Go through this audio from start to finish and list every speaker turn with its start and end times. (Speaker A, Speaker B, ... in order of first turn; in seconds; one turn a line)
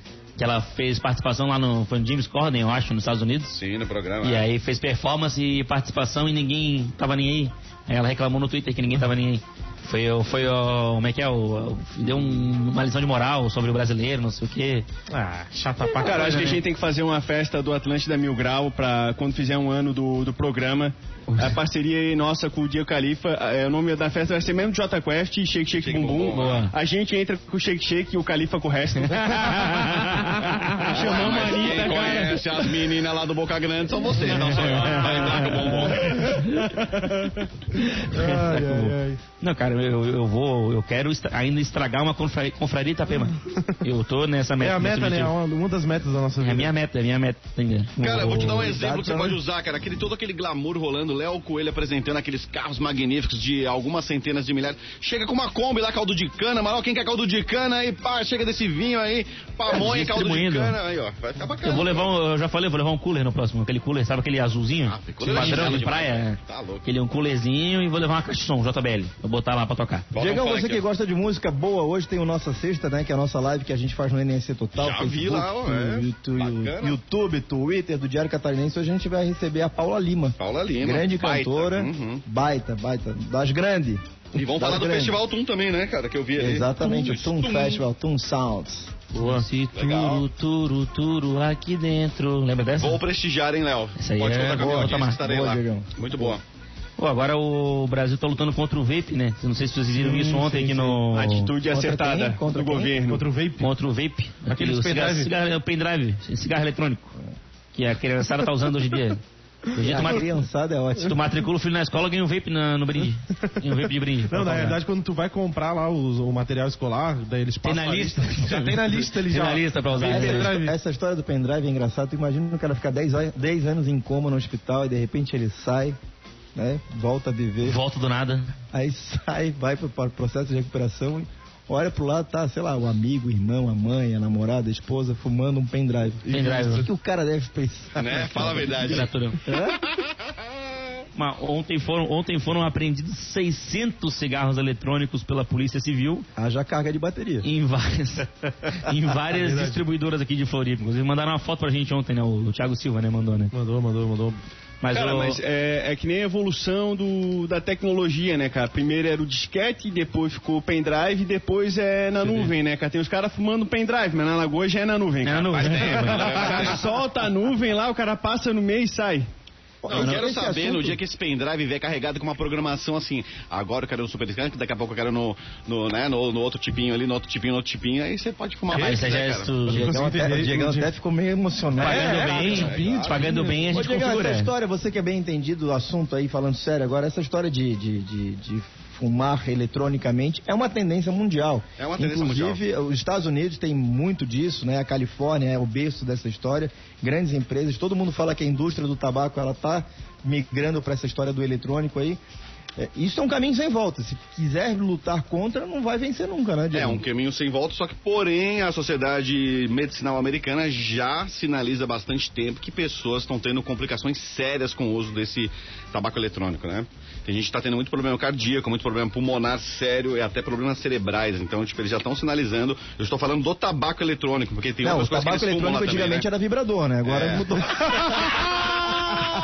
Speaker A: 0.4-3.6
Speaker B: 3.5-4.5
Speaker A: 4.2-14.9
Speaker C: 15.1-16.6
Speaker A: 15.9-16.6
Speaker D: 16.0-32.9
Speaker A: 21.3-21.5
Speaker B: 25.8-26.7
Speaker A: 26.3-26.7
Speaker A: 29.1-30.9
Speaker B: 30.9-36.4
Speaker C: 34.6-39.2
Speaker A: 34.8-37.1
Speaker A: 37.7-45.3
Speaker C: 44.6-46.7
Speaker A: 46.4-48.7
Speaker B: 48.0-62.1
Speaker E: 48.1-49.4
Speaker A: 59.7-60.8
Speaker A: 61.6-70.1
Speaker B: 64.9-66.9
Speaker C: 65.4-65.7
Speaker B: 70.1-70.8
Speaker E: 70.2-85.2
Speaker B: 74.8-77.0
Speaker B: 80.4-82.2
Speaker B: 84.3-87.8
Speaker E: 86.3-89.0
Speaker A: 89.1-93.0
Speaker C: 89.2-89.5
Speaker B: 89.7-90.2
Speaker B: 92.8-96.4
Speaker A: 94.0-95.2
Speaker E: 94.6-96.4
Speaker A: 97.0-101.5
Speaker E: 100.0-101.0
Speaker D: 101.1-103.2
Speaker E: 101.7-103.0
Speaker C: 103.1-103.7
Speaker A: 103.6-107.2
Speaker C: 104.5-105.3
Speaker A: 107.7-110.3
Speaker E: 109.8-111.2
Speaker A: 111.0-114.8
Speaker C: 114.3-120.7
Speaker A: 117.6-120.5
Speaker E: 120.0-126.0
Speaker E: 126.5-127.8
Speaker A: 127.6-128.5
Speaker E: 128.7-139.8
Speaker C: 136.3-136.8
Speaker A: 136.3-136.9
Speaker B: 138.0-139.1
Speaker A: 138.6-139.4
Speaker B: 139.7-140.0
Speaker A: 141.2-146.2
Speaker E: 146.4-147.5
Speaker A: 147.4-153.5
Speaker C: 149.3-149.8
Speaker C: 153.5-154.4
Speaker A: 154.8-155.4
Speaker D: 154.9-169.2
Speaker A: 165.2-166.5
Speaker B: 165.5-166.9
Speaker E: 169.8-171.0
Speaker B: 169.9-179.6
Speaker A: 169.9-170.2
Speaker A: 178.7-180.0
Speaker C: 178.7-179.0
Speaker C: 179.7-180.9
Speaker E: 179.7-202.2
Speaker B: 181.8-183.7
Speaker A: 181.8-184.5
Speaker C: 181.8-183.6
Speaker B: 191.8-192.6
Speaker E: 202.8-207.1
Speaker B: 206.7-226.2
Speaker E: 224.8-228.5
Speaker B: 227.1-228.3